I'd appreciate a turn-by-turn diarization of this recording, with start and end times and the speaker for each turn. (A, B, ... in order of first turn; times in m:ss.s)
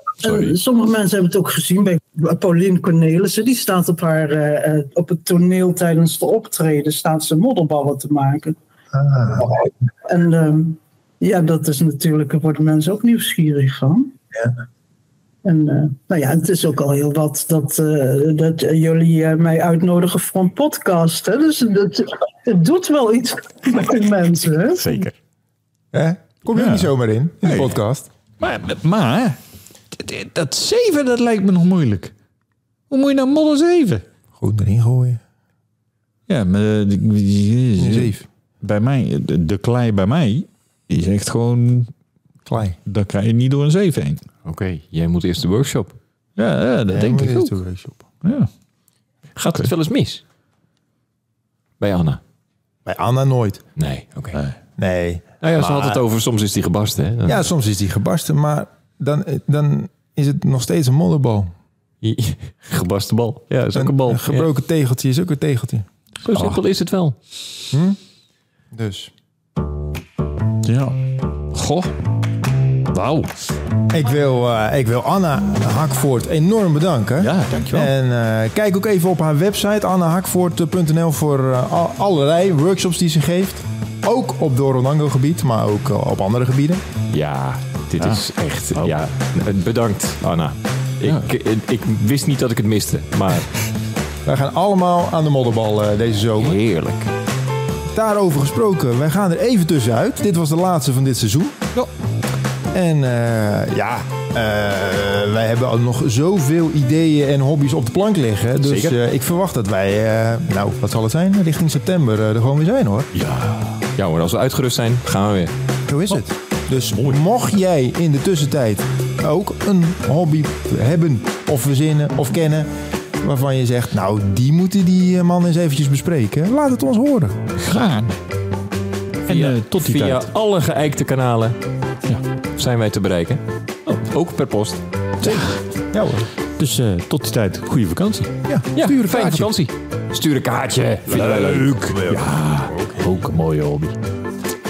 0:00.2-0:08.6 A
0:00.2-0:00.5 B
0:08.9-0:09.5 C
0:10.0-0:14.1 A
0:15.4-0:25.0 A
0:24.8-0:25.1 B
0:25.9-0:28.1 C
0:26.5-0:26.9 D
0:27.4-0:27.8 D
0:28.4-0:29.4 D
0:29.9-0:32.1 D
0:32.9-0:34.0 D
0:34.4-0:35.2 C
0:36.3-0:41.9 D
0:37.8-0:38.3 C
0:42.4-0:42.8 C
0:42.8-0:44.3 D
0:44.4-0:45.9 B
0:46.4-0:47.6 D
0:46.9-0:48.0 C
0:48.2-0:48.5 D
0:49.4-0:50.2 B
0:51.8-0:52.2 B
0:52.8-0:53.6 C
0:53.8-0:54.4 B
0:54.8-0:56.0 C
0:55.4-0:57.4 B
0:57.3-1:01.5 C
1:02.0-1:04.5 B
1:03.7-1:05.8 C
1:06.2-1:07.2 B
1:07.7-1:08.0 C
1:08.7-1:09.1 C
1:10.6-1:11.0 D
1:11.5-1:11.9 B
1:12.9-1:13.3 D
1:13.9-1:26.8 C
1:17.2-1:17.9 D
1:27.1-1:33.5 B
1:34.2-1:36.6 C
1:36.4-1:37.1 B
1:37.9-1:41.6 C
1:42.7-1:53.1 C
1:48.6-1:49.0 B
1:53.1-1:53.8 D
1:54.0-1:55.5 B
1:55.9-2:07.4 C
2:07.6-2:08.2 D
2:09.2-2:10.3 D
2:09.2-2:11.6 B
2:12.5-2:14.8 B
2:15.2-2:16.3 C
2:15.2-2:15.5 D
2:16.6-2:18.3 D
2:18.4-2:19.5 C
2:18.7-2:22.2 B
2:21.1-2:24.0 D
2:22.7-2:23.0 C